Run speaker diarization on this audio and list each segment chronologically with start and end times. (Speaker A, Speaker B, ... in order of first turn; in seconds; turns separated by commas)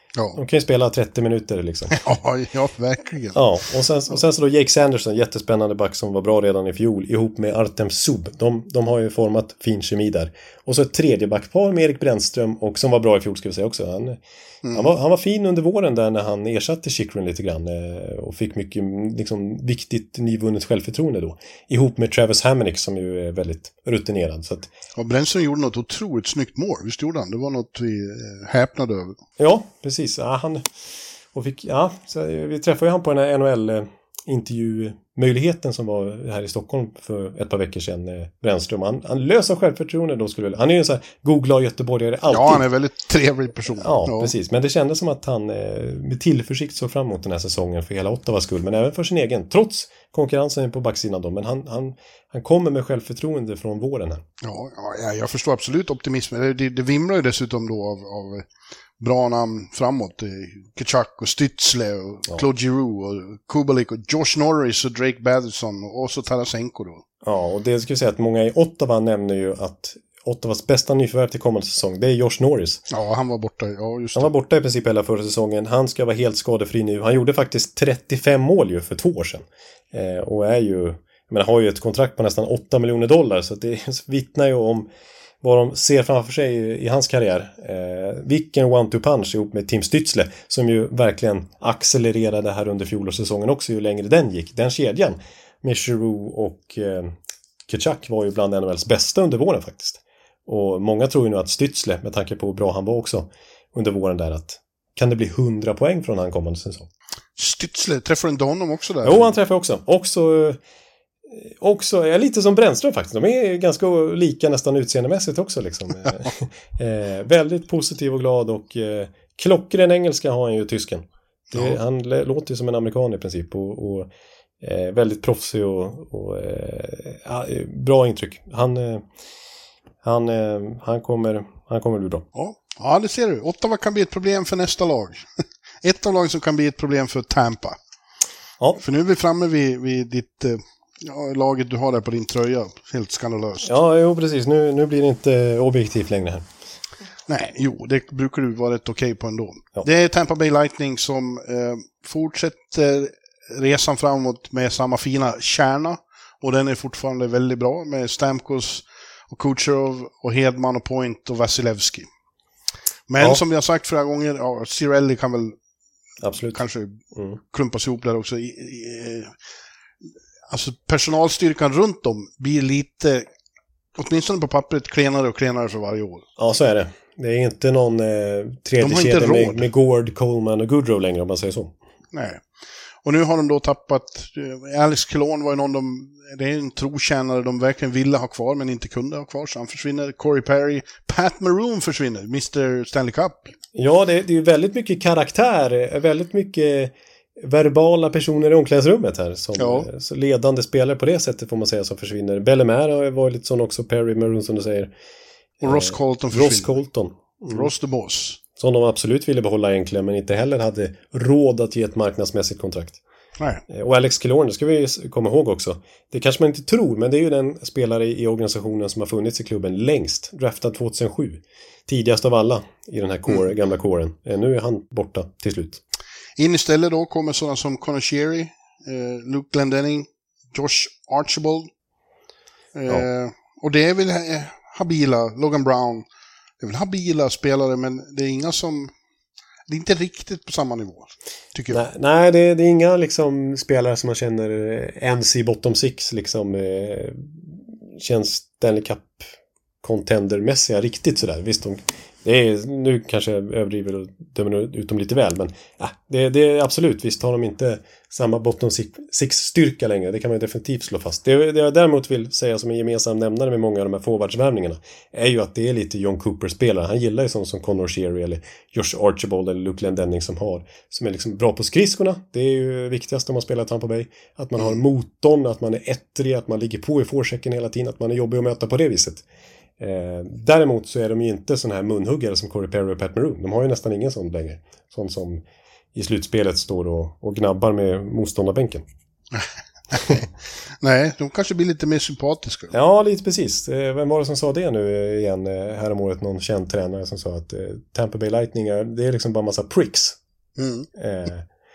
Speaker A: 0.3-2.0, Speaker B: 1.9-3.4, Speaker A: 3.3-14.2, Speaker B: 14.6-14.9, Speaker A: 14.7-24.7, Speaker B: 24.9-29.1, Speaker A: 29.4-30.7, Speaker A: 31.3-42.6, Speaker B: 42.3-44.3, Speaker A: 43.8-54.2, Speaker B: 54.4-58.5, Speaker B: 59.0-67.0, Speaker A: 67.2-72.8, Speaker B: 72.9-74.3, Speaker A: 74.1-84.9, Speaker A: 85.4-97.1, Speaker A: 97.7-106.9, Speaker B: 107.4-109.3, Speaker A: 109.0-110.6, Speaker A: 111.3-129.0, Speaker B: 121.5-121.8, Speaker A: 130.0-132.2, Speaker B: 132.3-135.2, Speaker B: 135.8-137.8, Speaker B: 138.8-143.7, Speaker A: 143.6-146.4, Speaker B: 147.3-162.1, Speaker B: 163.1-165.6, Speaker A: 166.2-166.6, Speaker B: 166.5-169.3, Speaker B: 170.5-173.3, Speaker B: 173.9-176.2, Speaker A: 176.4-181.7, Speaker B: 178.8-179.7, Speaker B: 182.1-182.4, Speaker B: 183.0-193.5, Speaker A: 193.7-204.9, Speaker B: 199.6-199.9, Speaker A: 205.6-207.7, Speaker B: 205.6-206.8, Speaker B: 207.5-208.4, Speaker A: 208.6-213.0, Speaker A: 213.7-225.8, Speaker B: 226.4-231.7, Speaker B: 232.7-236.1, Speaker B: 236.6-238.9, Speaker B: 239.7-241.8, Speaker A: 241.7-249.2, Speaker A: 249.8-279.2, Speaker A: 279.8-285.4, Speaker A: 285.9-288.8, Speaker B: 289.3-290.2, Speaker B: 290.8-292.7, Speaker A: 292.7-300.2, Speaker B: 300.6-300.9, Speaker A: 300.9-301.4